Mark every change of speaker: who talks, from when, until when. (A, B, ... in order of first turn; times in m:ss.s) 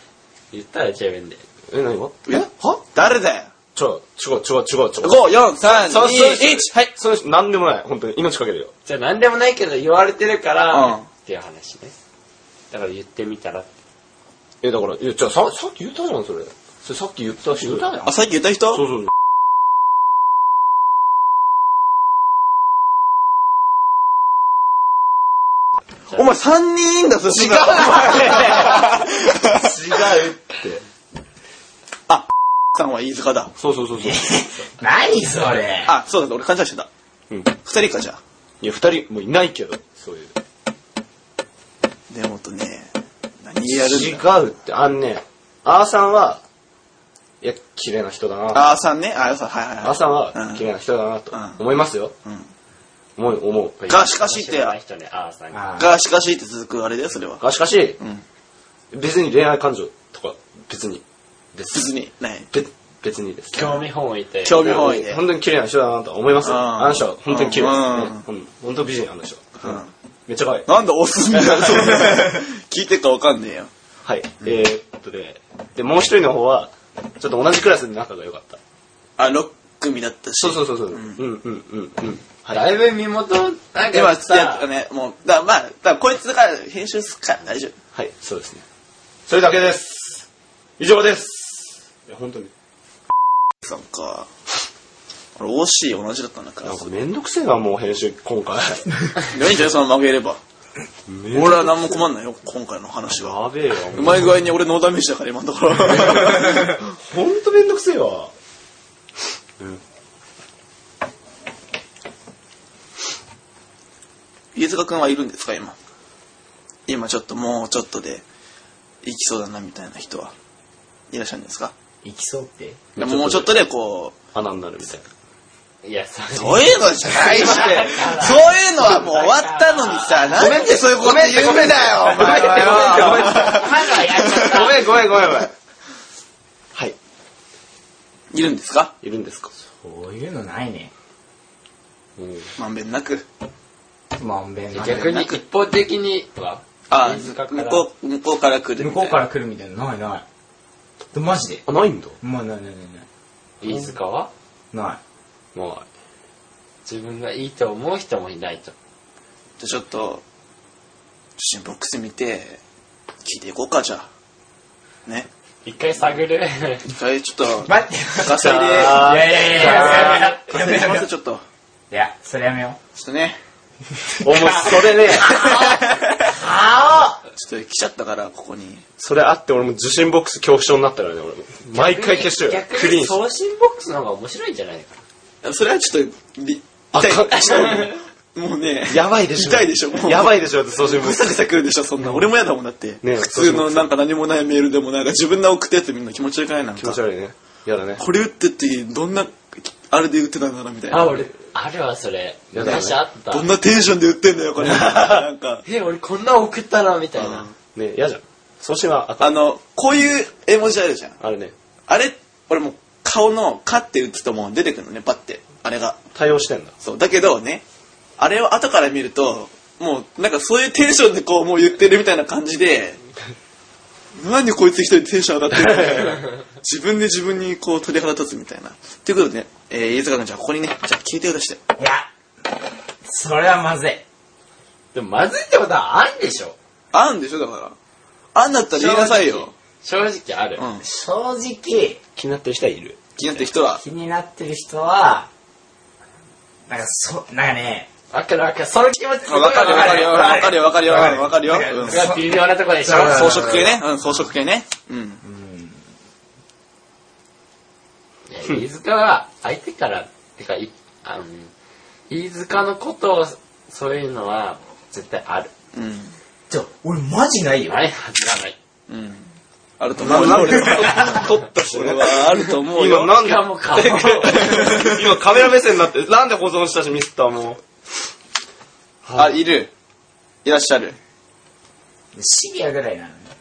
0:00.5-0:01.4 A
0:01.7-0:02.8 B
0:02.3-0:03.5 C
0:03.7-0:08.7 B
0:05.0-0:06.7 C
0:08.8-0:11.9 A
0:10.7-0:11.0 C
0:12.7-0:13.7 A
0:14.6-0:18.1 B
0:18.0-0:18.9 C
0:18.7-0:19.1 B
0:26.1-0:29.7 C
0:27.3-0:29.0 D
0:29.5-0:30.8 B
0:32.1-0:33.5 C
0:33.6-0:34.6 B
0:34.0-0:35.9 D
0:35.8-0:36.9 C
0:37.6-0:38.2 C
0:38.6-0:40.3 B
0:42.1-0:42.9 C
0:43.4-0:44.3 C
0:43.7-0:46.4 B
0:47.4-0:48.7 B
0:48.5-0:50.6 C
0:49.8-0:52.1 B
0:51.3-0:51.6 C
0:53.2-0:53.8 B
0:53.8-0:55.8 A
0:53.9-0:54.8 C
0:55.5-0:55.9 D
0:55.8-0:57.4 C
0:57.4-0:58.0 B
0:58.9-1:01.9 B
1:01.7-1:02.5 C
1:02.5-1:03.8 B
1:03.5-1:05.0 A
1:04.4-1:05.2 C
1:04.6-1:10.7 B
1:06.4-1:08.2 C
1:09.6-1:09.9 C
1:10.6-1:13.7 C
1:11.3-1:12.1 B
1:14.0-1:18.6 B
1:19.2-1:21.2 C
1:20.4-1:22.7 B
1:22.5-1:24.6 A
1:23.9-1:27.8 C
1:27.9-1:28.6 B
1:29.3-1:30.2 B
1:30.8-1:32.5 B
1:33.6-1:34.3 C
1:35.4-1:36.9 C
1:36.6-1:39.1 B
1:39.3-1:40.4 C
1:41.1-1:42.0 B
1:41.3-1:46.8 C
1:43.2-1:44.4 B
1:46.1-1:48.3 B
1:54.5-1:55.8 C
1:56.9-1:58.2 C
1:59.0-2:00.3 C
2:01.1-2:01.7 C
2:02.0-2:02.8 D
2:02.9-2:03.6 B
2:03.0-2:04.2 C
2:04.3-2:05.1 B
2:05.8-2:10.8 A
2:06.3-2:14.7 C
2:10.3-2:15.5 B
2:12.1-2:15.0 D
2:18.3-2:18.9 C
2:19.0-2:19.5 B
2:19.8-2:20.9 D
2:22.2-2:22.5 B
2:22.6-2:23.2 C
2:24.2-2:25.4 D
2:24.7-2:27.9 A
2:26.9-2:29.2 C
2:28.8-2:30.2 D
2:31.1-2:31.6 D
2:31.6-2:32.2 B
2:32.2-2:33.0 D
2:33.6-2:34.3 A
2:33.6-2:33.9 B
2:34.7-2:35.0 D
2:35.5-2:35.9 B
2:36.8-2:38.7 A
2:39.6-2:40.2 C
2:41.4-2:42.6 C
2:43.2-2:44.1 C
2:45.6-2:46.9 A
2:46.8-2:51.4 C
2:47.6-2:51.1 D
2:48.3-2:50.2 B
2:49.6-2:50.3 A
2:51.9-2:52.8 D
2:52.9-2:53.4 C
2:54.2-2:55.4 B
2:54.2-2:57.2 D
2:55.3-2:56.1 C
2:57.4-2:58.8 C
2:59.0-3:03.2 B
3:01.7-3:05.0 A
3:05.4-3:17.0 C
3:06.9-3:07.9 B
3:08.9-3:11.4 B
3:13.0-3:13.9 B
3:16.7-3:18.0 B
3:18.0-3:21.2 C
3:20.9-3:23.5 A
3:22.5-3:23.0 B
3:22.6-3:25.6 C
3:25.6-3:27.5 A
3:27.2-3:27.5 C
3:27.7-3:29.4 B
3:29.2-3:31.2 C
3:31.2-3:31.5 B
3:31.9-3:36.0 C
3:36.1-3:36.7 B
3:36.8-3:37.6 C
3:38.2-3:43.0 C
3:44.1-3:51.6 C
3:51.8-3:52.1 D
3:53.0-3:54.0 D
3:54.9-3:56.6 A
3:56.9-3:57.8 C
3:58.3-3:59.5 C
3:58.7-4:00.6 A
4:00.6-4:00.8 C
4:00.8-4:02.0 D
4:02.2-4:03.0 B
4:03.2-4:03.8 C
4:03.8-4:05.3 D
4:06.7-4:07.9 D
4:08.1-4:10.2 A
4:09.3-4:12.2 C
4:09.4-4:12.2 D
4:11.8-4:13.6 A
4:12.8-4:13.8 D
4:12.9-4:15.2 C
4:15.2-4:15.8 D
4:18.3-4:21.5 A
4:22.1-4:25.5 A
4:25.7-4:26.1 C
4:26.5-4:27.8 D
4:27.7-4:28.6 A
4:28.9-4:35.0 C
4:30.0-4:37.6 B
4:33.1-4:34.7 A
4:39.0-4:39.4 B
4:39.1-4:39.7 C
4:40.4-4:41.0 C
4:42.1-4:43.3 D